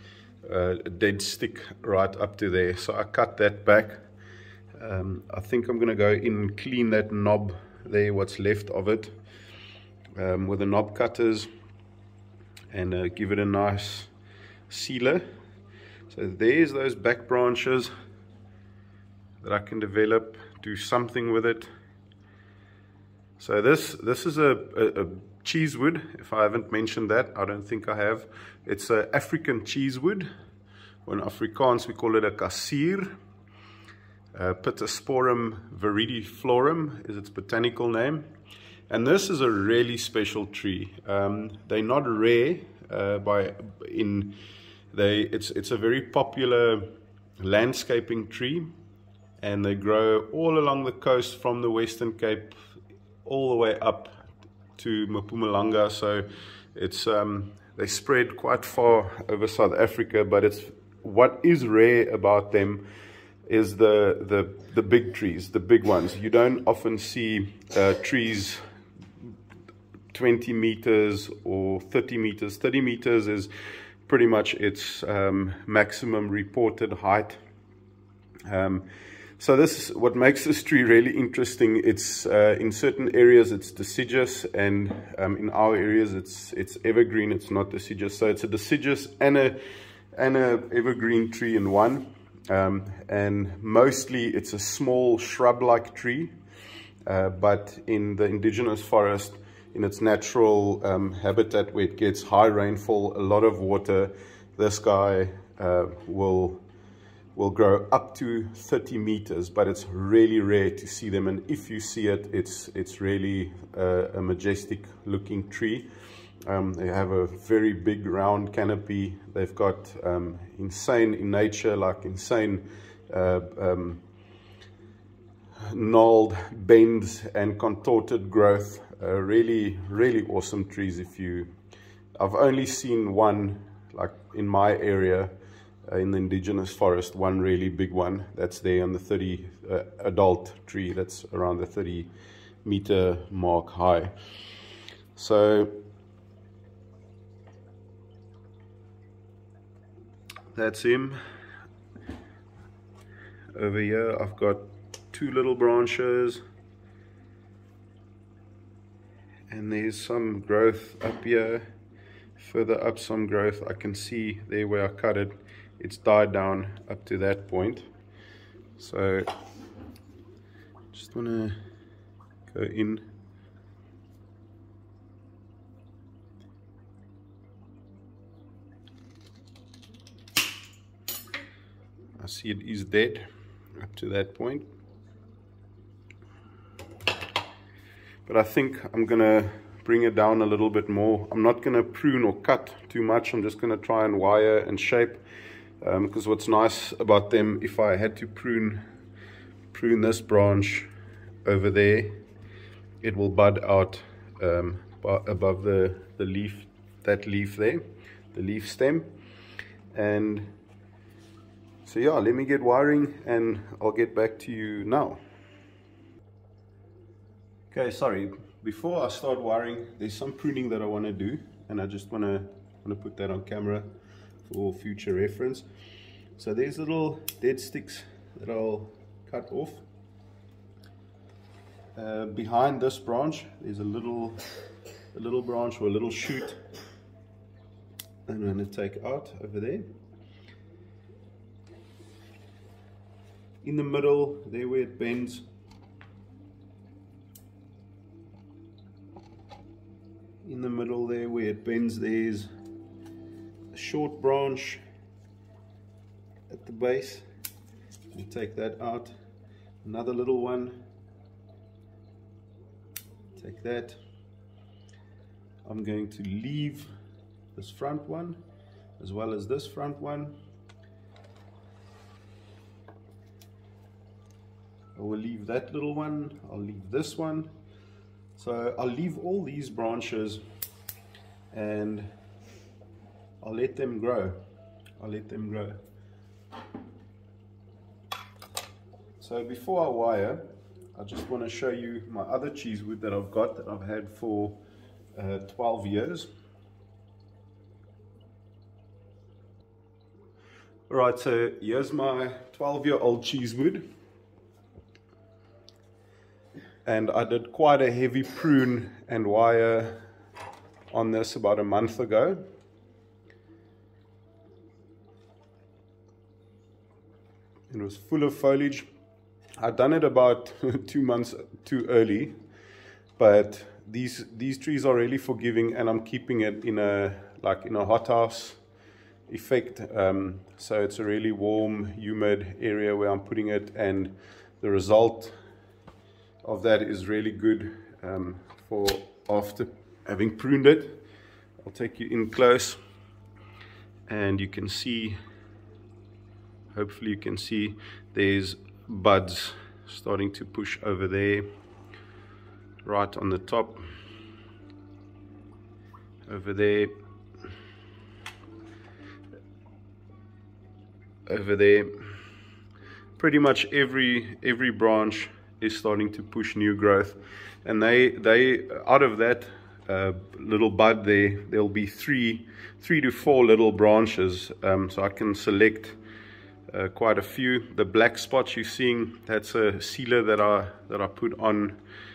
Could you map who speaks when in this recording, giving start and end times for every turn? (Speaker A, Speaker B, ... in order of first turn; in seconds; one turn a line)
Speaker A: 0.4-4.0
Speaker A: 4.8-9.1
Speaker A: 10.2-11.5
Speaker A: 12.7-14.1
Speaker A: 14.7-15.2
Speaker A: 16.1-17.9
Speaker A: 19.4-21.7
Speaker A: 23.4-30.3
Speaker A: 31.1-33.1
Speaker A: 34.3-38.3
Speaker A: 38.9-44.4
Speaker A: 44.9-46.9
Speaker A: 47.4-48.7
Speaker A: 49.4-52.6
Speaker A: 53.2-54.2
Speaker A: 54.8-62.8
Speaker A: 63.5-68.6
Speaker A: 70.1-73.5
Speaker A: 74.0-77.4
Speaker A: 78.5-78.9
Speaker A: 79.4-89.6
Speaker A: 90.1-96.3
Speaker A: 97.0-106.6
Speaker A: 107.3-115.9
Speaker A: 116.4-124.0
Speaker A: 125.6-131.5
Speaker A: 132.2-135.3
Speaker A: 135.8-142.1
Speaker A: 142.6-144.1
Speaker A: 145.2-145.7
Speaker A: 150.5-151.2
Speaker A: 153.5-156.4
Speaker A: 159.5-161.7
Speaker A: 162.4-167.9
Speaker A: 168.8-169.3
Speaker A: 170.9-171.6
Speaker A: 172.5-173.0
Speaker A: 182.2-183.2
Speaker A: 183.8-184.6
Speaker A: 188.2-195.2
Speaker A: 195.8-198.8
Speaker A: 199.7-200.9
Speaker A: 201.4-202.1
Speaker A: 203.0-207.8
Speaker A: 208.3-209.1
Speaker A: 209.9-210.5
Speaker A: 211.8-215.2
Speaker A: 217.7-223.9
Speaker A: 224.5-225.7
Speaker A: 226.4-229.8
Speaker A: 232.0-234.4
Speaker A: 235.1-236.6
Speaker A: 238.3-239.8
Speaker A: 243.6-245.4
Speaker A: 250.4-252.5
Speaker A: 253.7-254.8
Speaker A: 256.5-257.2
Speaker A: 258.1-259.1
Speaker A: 259.8-260.8
Speaker A: 263.4-264.0
Speaker A: 265.6-266.9
Speaker A: 267.5-268.4
Speaker A: 269.0-270.3
Speaker A: 274.9-277.5
Speaker A: 278.4-280.4
Speaker A: 281.5-282.1
Speaker A: 283.4-284.4
Speaker A: 285.0-285.8
Speaker A: 289.2-294.6
Speaker A: 295.1-296.3
Speaker A: 300.9-303.8
Speaker A: 306.8-310.0
Speaker A: 310.9-312.4
Speaker A: 317.7-318.9
Speaker A: 319.6-322.3
Speaker A: 323.2-328.6
Speaker A: 329.3-335.3
Speaker A: 336.4-341.0
Speaker A: 341.6-342.8
Speaker A: 344.1-345.2
Speaker A: 346.7-351.4
Speaker A: 352.8-353.8
Speaker A: 356.3-356.9
Speaker A: 361.3-361.9
Speaker A: 363.2-376.0
Speaker A: 376.7-381.8